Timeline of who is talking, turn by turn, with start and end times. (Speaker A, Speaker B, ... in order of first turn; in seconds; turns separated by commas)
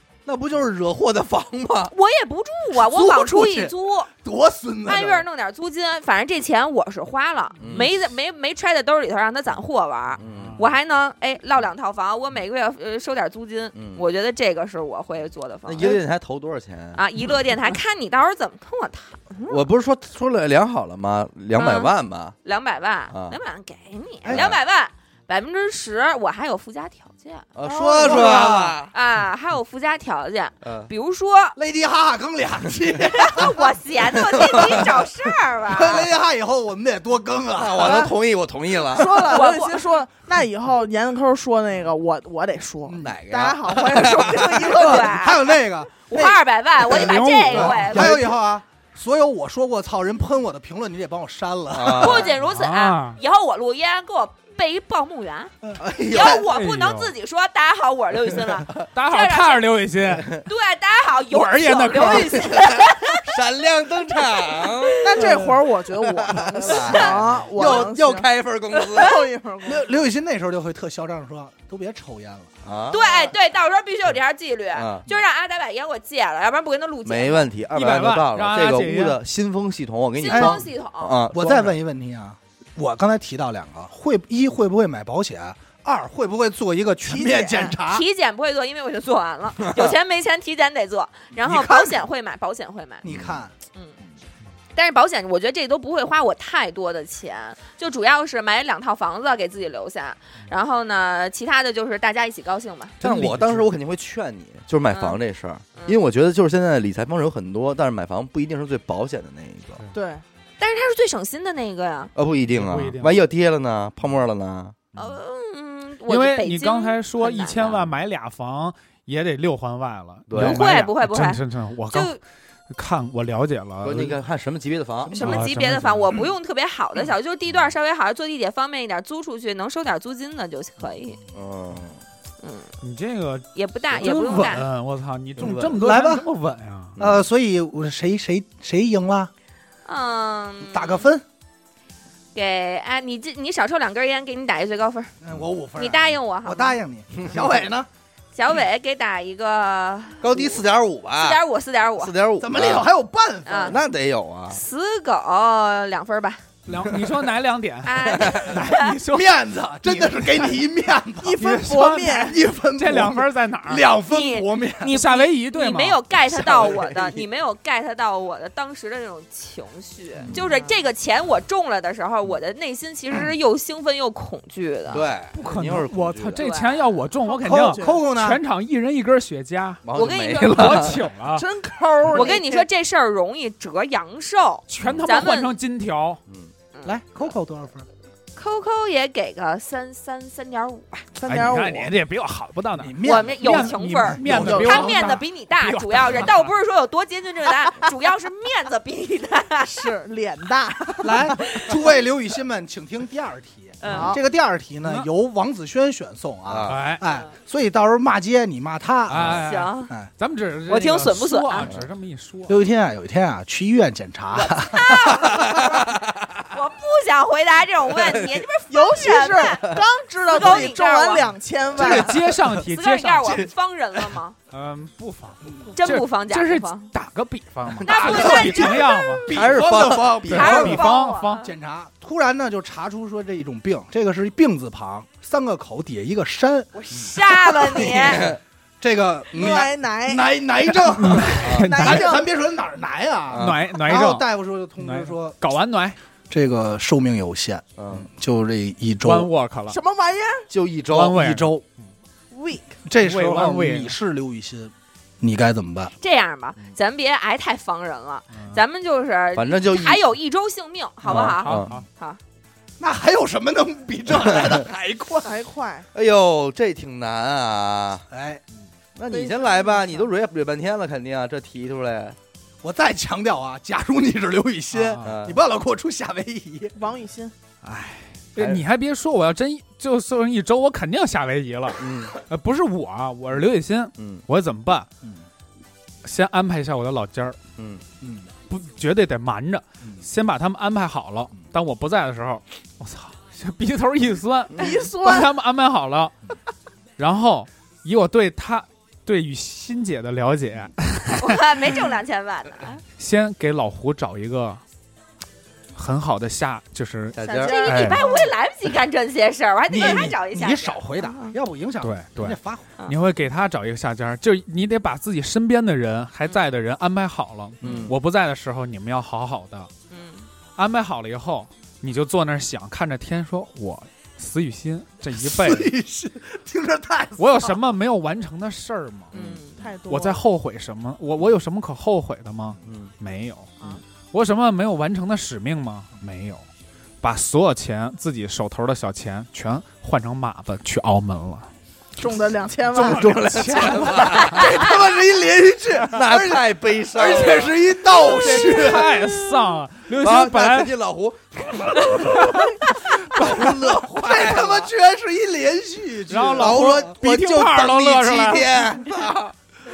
Speaker A: 0.2-1.9, Speaker B: 1.9-4.1, Speaker C: 2.7-5.2, Speaker B: 4.8-16.0, Speaker A: 7.6-7.9, Speaker A: 10.2-10.6, Speaker D: 10.3-10.6, Speaker A: 13.7-14.0, Speaker A: 15.6-17.0, Speaker B: 16.9-19.3, Speaker A: 19.5-22.4, Speaker B: 21.6-21.9, Speaker B: 22.4-27.5, Speaker A: 23.1-23.4, Speaker A: 24.3-24.6, Speaker A: 27.5-28.9, Speaker E: 27.7-27.9, Speaker C: 27.9-28.8, Speaker B: 28.0-31.6, Speaker A: 30.6-30.9, Speaker C: 31.6-33.8, Speaker B: 33.0-36.1, Speaker A: 34.3-34.8, Speaker C: 34.3-35.0, Speaker C: 35.6-38.1, Speaker A: 37.5-39.5, Speaker E: 38.9-45.4, Speaker B: 39.2-39.9, Speaker A: 43.0-44.7, Speaker B: 44.5-48.3, Speaker C: 44.6-52.3, Speaker D: 46.9-48.1, Speaker A: 51.7-52.3, Speaker B: 51.8-55.5, Speaker D: 52.4-53.2, Speaker A: 55.8-56.4, Speaker B: 56.1-59.7, Speaker D: 56.4-57.1, Speaker D: 58.9-60.4, Speaker B: 60.4-63.4, Speaker D: 61.3-62.5, Speaker A: 62.0-65.5, Speaker B: 64.3-65.2, Speaker E: 65.0-68.3, Speaker A: 66.0-69.2, Speaker B: 66.8-67.2, Speaker B: 68.8-69.2, Speaker E: 68.9-69.9, Speaker C: 69.6-72.5, Speaker A: 72.6-73.3, Speaker B: 72.9-77.5, Speaker A: 74.7-75.0, Speaker A: 77.0-81.8, Speaker D: 77.7-79.2, Speaker B: 80.2-81.2, Speaker C: 80.3-80.6, Speaker C: 81.3-88.0, Speaker E: 87.0-87.8, Speaker B: 87.9-93.0, Speaker A: 89.6-89.9, Speaker C: 91.4-92.0, Speaker C: 93.0-93.5, Speaker A: 93.1-93.4, Speaker B: 94.7-103.0, Speaker A: 103.0-109.8, Speaker D: 103.0-103.6, Speaker B: 104.9-105.2, Speaker B: 105.8-106.0, Speaker E: 109.9-110.2, Speaker B: 110.6-112.1, Speaker A: 112.2-114.8, Speaker D: 112.5-113.1, Speaker B: 114.9-117.9, Speaker D: 116.1-124.1, Speaker A: 120.3-120.7, Speaker B: 120.3-122.2, Speaker A: 123.8-125.4, Speaker D: 125.1-126.2, Speaker B: 125.1-131.2, Speaker A: 131.3-132.0, Speaker B: 132.4-132.7, Speaker D: 132.8-137.0, Speaker B: 133.5-134.7, Speaker A: 135.4-135.8, Speaker C: 135.8-136.2, Speaker A: 137.0-137.2, Speaker C: 137.0-139.3, Speaker B: 139.8-141.1, Speaker C: 140.6-141.2, Speaker B: 142.3-145.1, Speaker C: 145.2-147.9, Speaker B: 145.8-146.8, Speaker B: 148.3-150.6, Speaker A: 150.2-151.4, Speaker B: 151.2-152.1, Speaker A: 152.0-152.9, Speaker C: 152.4-153.8, Speaker B: 153.4-153.8, Speaker A: 153.6-154.6, Speaker B: 154.5-156.4, Speaker D: 156.7-160.6, Speaker B: 157.8-159.0, Speaker A: 158.2-158.5, Speaker C: 159.1-161.4, Speaker E: 161.2-162.4, Speaker D: 161.4-163.9, Speaker C: 162.2-165.0, Speaker B: 164.0-175.0, Speaker D: 164.9-166.1, Speaker C: 166.3-167.2, Speaker E: 170.3-170.7, Speaker A: 174.9-176.4, Speaker D: 175.3-179.8, Speaker B: 176.3-176.9, Speaker E: 177.3-178.0, Speaker C: 177.4-178.4, Speaker A: 179.8-181.0, Speaker B: 179.9-180.9, Speaker D: 180.4-181.4, Speaker E: 181.3-182.4, Speaker B: 182.1-185.6, Speaker D: 184.7-186.2, Speaker A: 184.8-185.1, Speaker A: 186.3-186.5, Speaker C: 186.8-187.9, Speaker B: 188.3-191.1, Speaker E: 191.2-191.9, Speaker D: 191.2-196.5, Speaker C: 192.8-195.2, Speaker B: 193.0-199.9, Speaker E: 194.3-194.9, Speaker E: 199.6-201.7, Speaker C: 201.0-210.1, Speaker B: 203.8-204.2, Speaker E: 203.8-204.2, Speaker D: 204.8-205.1, Speaker A: 206.5-206.8, Speaker D: 206.7-207.0, Speaker B: 207.0-207.3, Speaker D: 209.1-212.6, Speaker A: 209.1-209.4, Speaker B: 209.4-209.9, Speaker B: 210.7-211.7, Speaker C: 212.5-215.5, Speaker B: 214.3-215.7, Speaker A: 215.3-216.4, Speaker B: 216.5-221.3, Speaker A: 217.9-218.4, Speaker E: 218.7-222.2, Speaker D: 221.7-223.5, Speaker C: 221.8-222.6, Speaker B: 222.6-224.4, Speaker D: 224.5-229.3, Speaker B: 225.7-226.9, Speaker B: 227.8-229.3, Speaker C: 227.9-245.4, Speaker A: 229.3-230.8, Speaker B: 230.3-231.5, Speaker D: 230.3-231.5, Speaker B: 236.7-238.3, Speaker A: 237.7-238.4, Speaker E: 239.3-240.3, Speaker D: 240.8-242.2, Speaker E: 241.3-242.3, Speaker A: 241.4-241.7, Speaker A: 243.3-243.6, Speaker D: 243.3-244.2, Speaker D: 244.8-246.0, Speaker C: 246.3-249.3, Speaker A: 247.8-248.1, Speaker D: 249.0-249.8, Speaker E: 249.7-250.5, Speaker A: 250.5-251.2, Speaker D: 250.9-251.9, Speaker C: 251.1-251.6, Speaker E: 252.3-252.8, Speaker C: 252.9-255.9, Speaker D: 253.0-254.0, Speaker B: 256.0-262.2, Speaker D: 258.3-258.6, Speaker A: 259.3-260.0, Speaker D: 261.1-261.9, Speaker A: 261.1-261.7, Speaker C: 262.8-265.3, Speaker A: 264.1-264.6, Speaker E: 265.2-265.9, Speaker A: 265.9-268.1, Speaker C: 268.1-268.4, Speaker A: 268.9-272.2, Speaker E: 269.1-270.1, Speaker C: 272.6-276.7, Speaker D: 274.7-275.2, Speaker A: 275.0-275.4, Speaker E: 276.8-277.3, Speaker D: 277.6-284.9, Speaker A: 278.4-278.6, Speaker A: 281.8-282.1, Speaker A: 284.0-284.2, Speaker D: 286.0-287.4, Speaker A: 287.6-287.8, Speaker C: 288.0-288.3, Speaker D: 288.5-296.1, Speaker E: 294.6-295.3, Speaker D: 297.0-301.5, Speaker B: 301.2-302.8, Speaker D: 303.0-304.6, Speaker D: 305.7-308.1, Speaker A: 307.1-307.9, Speaker B: 307.2-311.3, Speaker C: 309.7-312.7, Speaker D: 311.8-319.7, Speaker A: 317.6-317.9, Speaker B: 319.9-320.3, Speaker D: 320.6-325.7, Speaker C: 325.2-327.6, Speaker D: 327.2-329.1, Speaker A: 329.1-329.4, Speaker B: 329.1-329.6, Speaker E: 329.6-330.2, Speaker D: 329.9-333.5, Speaker A: 332.6-332.9, Speaker D: 334.0-336.5, Speaker D: 337.0-341.5, Speaker E: 342.0-343.6, Speaker A: 342.8-344.5, Speaker D: 342.8-344.5, Speaker C: 344.1-349.0, Speaker A: 345.9-348.9, Speaker D: 348.0-350.7, Speaker A: 350.0-354.7, Speaker D: 352.1-352.6, Speaker D: 353.1-353.5, Speaker C: 353.3-357.6, Speaker D: 356.1-358.5, Speaker A: 356.3-359.3